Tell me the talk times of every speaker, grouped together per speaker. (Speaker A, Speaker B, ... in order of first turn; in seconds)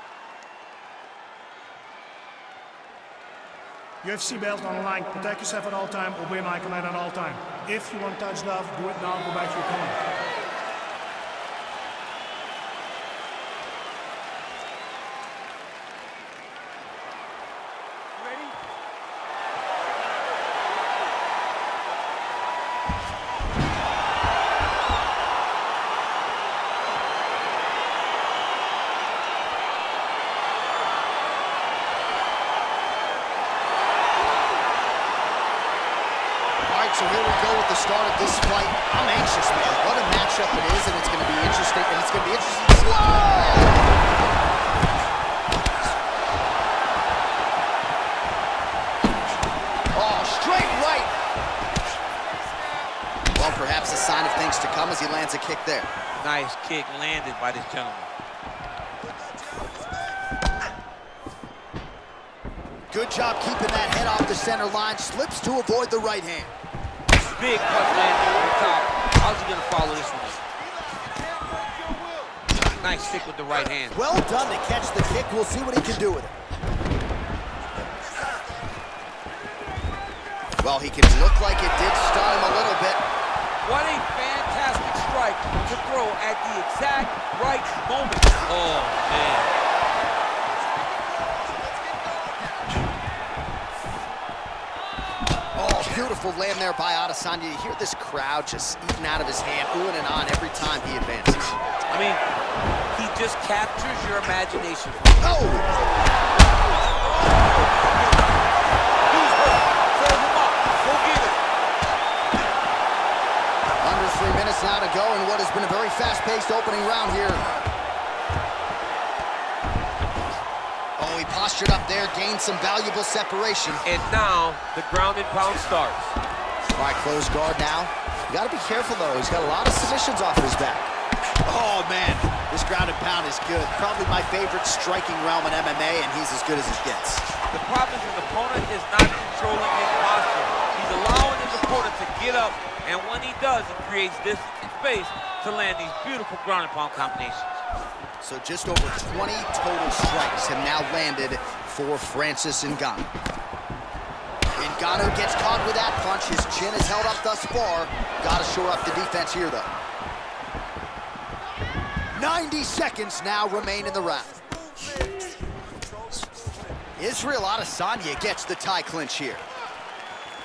Speaker A: 4.0-10.0
Speaker B: 36.7-43.8, 49.9-51.1, 53.3-55.9, 62.9-66.5, 73.9-76.3, 80.6-83.0, 95.5-101.4, 105.2-105.7, 113.8-117.4, 121.0-123.8, 126.8-130.9, 131.4-137.3, 148.2-153.1, 154.6-159.7, 162.1-164.3, 167.0-169.4
Speaker C: 56.2-58.1, 67.3-70.4, 72.8-74.0, 83.6-89.5, 101.9-102.2, 102.9-105.0, 107.0-108.2, 109.1-111.4, 123.8-126.1, 137.5-147.6